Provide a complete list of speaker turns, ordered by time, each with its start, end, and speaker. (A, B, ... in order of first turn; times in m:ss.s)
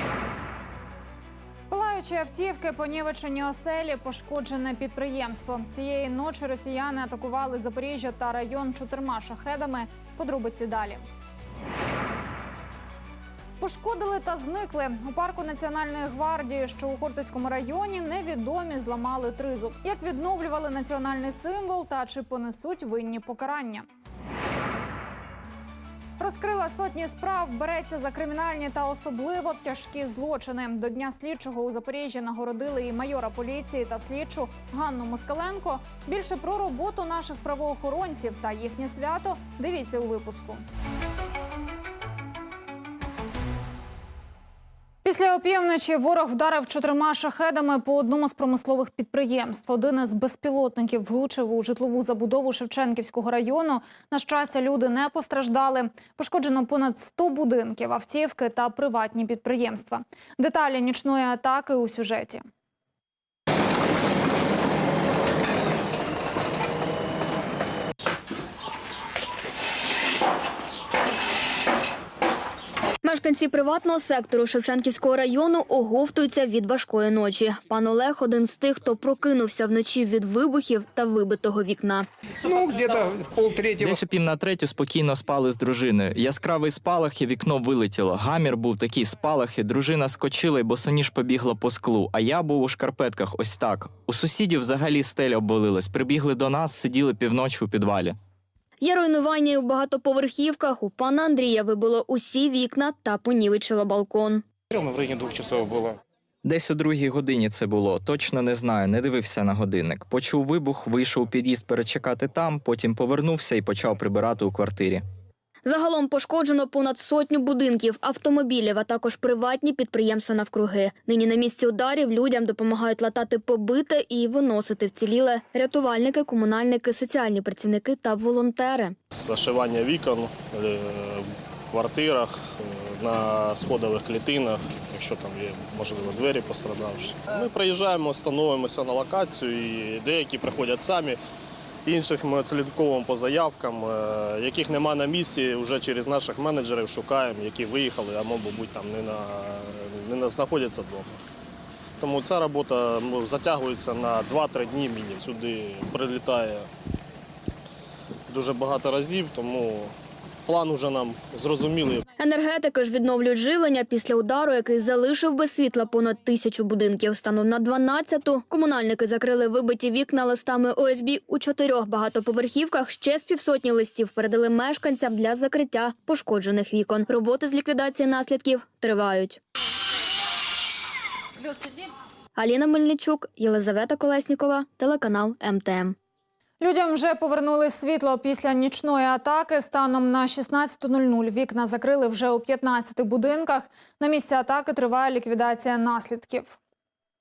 0:01.7-0:11.0 A
0:13.6-0:23.9 A
0:26.2-0:40.6 A
0:45.0-1:02.4 A
1:13.0-1:22.1 B
1:22.4-1:24.0 C
1:23.8-1:38.2 D
1:38.8-1:44.4 B
1:44.7-1:46.0 C
1:46.4-1:55.0 D
1:55.7-2:08.9 B
2:09.1-2:21.2 E
2:21.8-2:31.2 E
2:32.0-2:36.7 E
2:38.3-2:39.9 E
2:40.5-2:42.0 E
2:42.2-2:59.4 B
3:02.4-3:06.0 B
3:06.6-3:16.6 A